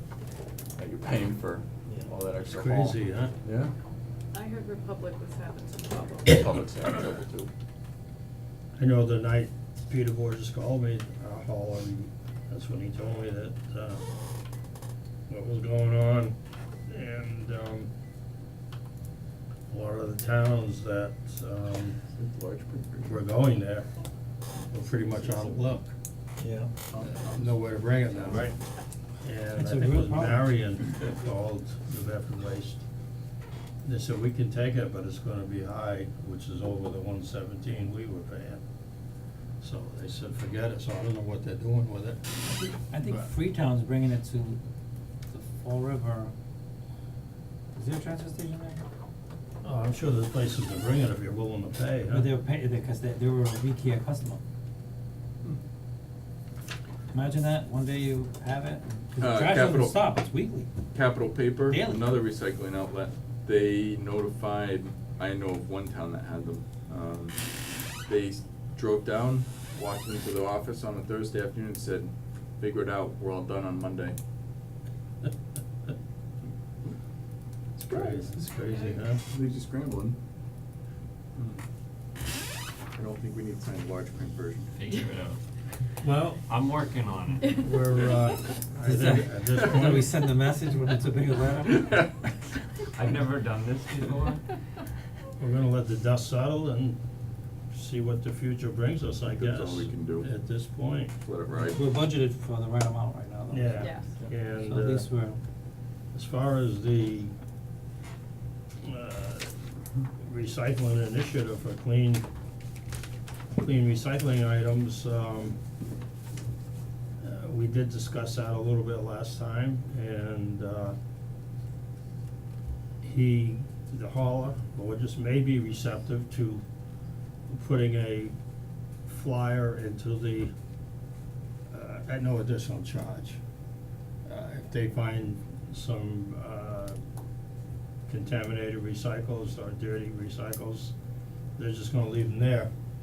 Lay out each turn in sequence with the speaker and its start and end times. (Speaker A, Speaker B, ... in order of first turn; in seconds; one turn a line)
Speaker A: 0.8-3.7
Speaker B: 2.4-3.3
Speaker C: 4.3-6.5
Speaker A: 6.3-7.5
Speaker B: 8.8-14.0
Speaker B: 15.3-16.4
Speaker B: 16.9-17.9
Speaker B: 19.7-22.0
Speaker A: 22.1-23.3
Speaker B: 23.0-23.9
Speaker B: 24.7-25.9
Speaker D: 26.4-26.7
Speaker A: 26.9-28.5
Speaker B: 27.3-28.6
Speaker B: 29.2-32.8
Speaker D: 29.6-30.5
Speaker B: 33.8-38.6
Speaker B: 39.6-42.2
Speaker D: 42.4-44.6
Speaker D: 45.3-46.3
Speaker D: 47.7-48.8
Speaker B: 49.6-52.3
Speaker D: 52.1-54.4
Speaker D: 57.1-60.7
Speaker A: 59.2-60.1
Speaker A: 60.9-67.4
Speaker D: 61.7-62.1
Speaker A: 68.1-74.2
Speaker A: 77.8-78.4
Speaker B: 77.9-79.2
Speaker C: 78.7-79.1
Speaker A: 79.1-80.2
Speaker A: 81.4-81.6
Speaker A: 83.0-84.8
Speaker E: 84.8-85.4
Speaker B: 86.0-86.4
Speaker E: 86.5-87.5
Speaker B: 87.5-90.1
Speaker D: 88.8-91.9
Speaker A: 91.7-92.4
Speaker E: 93.0-94.5
Speaker B: 95.4-97.0
Speaker B: 97.7-101.2
Speaker A: 99.3-100.3
Speaker A: 101.2-101.9
Speaker D: 101.7-103.9
Speaker B: 103.5-105.1
Speaker C: 103.8-104.1
Speaker D: 104.6-105.4
Speaker B: 106.1-107.3
Speaker B: 108.8-109.6
Speaker B: 110.2-112.2
Speaker B: 113.5-115.6
Speaker B: 117.2-121.0
Speaker B: 123.0-126.6
Speaker B: 127.5-128.3
Speaker B: 129.1-130.5
Speaker B: 131.7-133.4
Speaker B: 134.3-137.0
Speaker B: 138.1-140.9
Speaker B: 141.6-142.7